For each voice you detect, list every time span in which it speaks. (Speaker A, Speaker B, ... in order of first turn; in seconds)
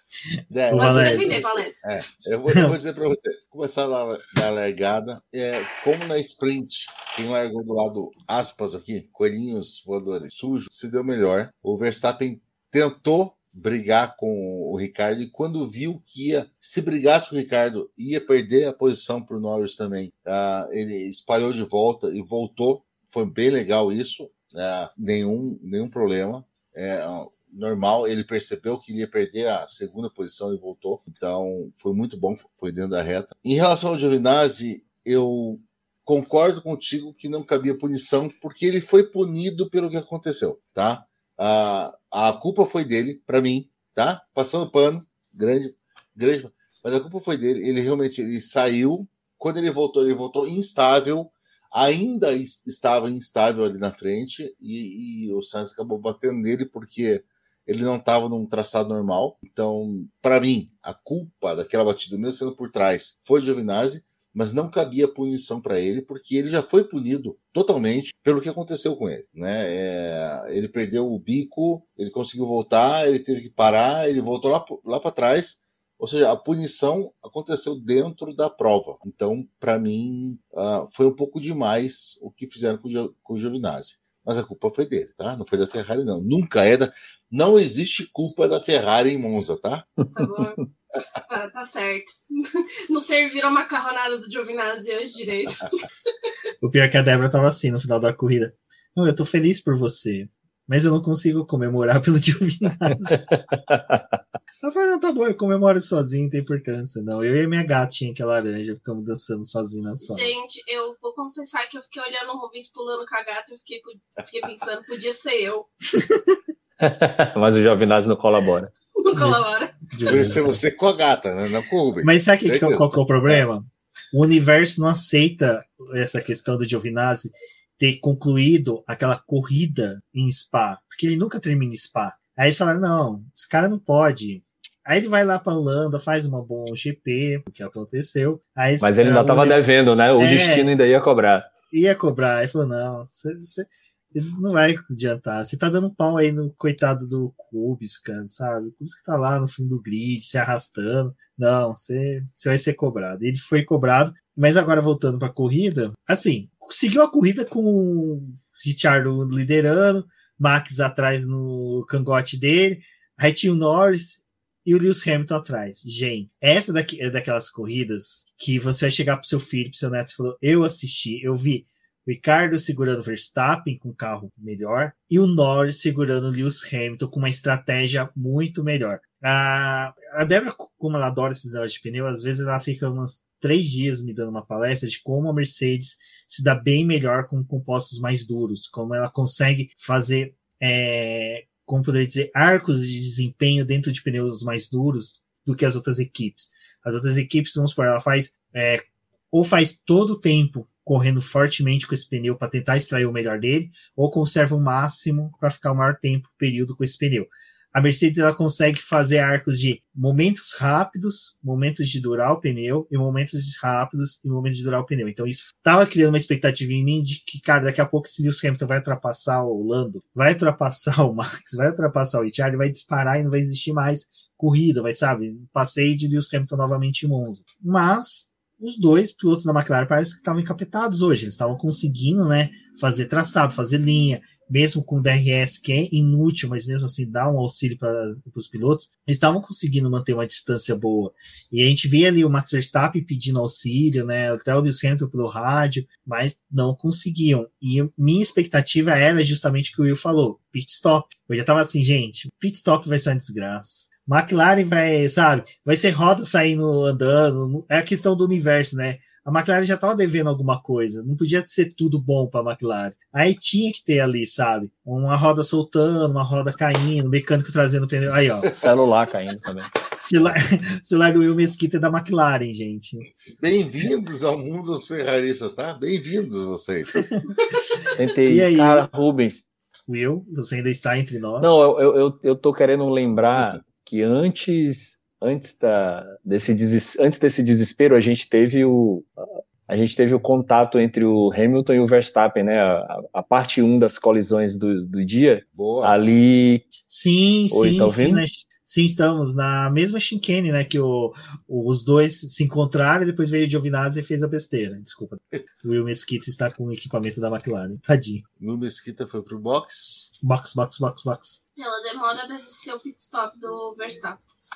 Speaker A: 0.5-89.9, 120.0-123.4, 273.4-277.0, 295.6-296.0, 308.4-310.1
Speaker B: 0.7-1.4, 2.5-2.8, 96.6-103.3, 104.6-110.3, 115.9-116.4, 119.1-120.6, 122.0-139.6, 140.2-140.7, 141.7-268.6, 270.0-273.1, 276.9-278.9, 279.9-281.7, 296.9-308.2, 310.2-311.4
Speaker C: 0.8-1.8, 90.1-90.6, 91.3-95.8, 110.0-115.7, 119.0-119.7, 311.6-314.2
Speaker D: 103.1-104.2, 116.8-118.7, 138.8-141.5, 268.6-269.7, 278.0-279.5, 281.4-289.1, 289.7-296.7, 297.5-298.2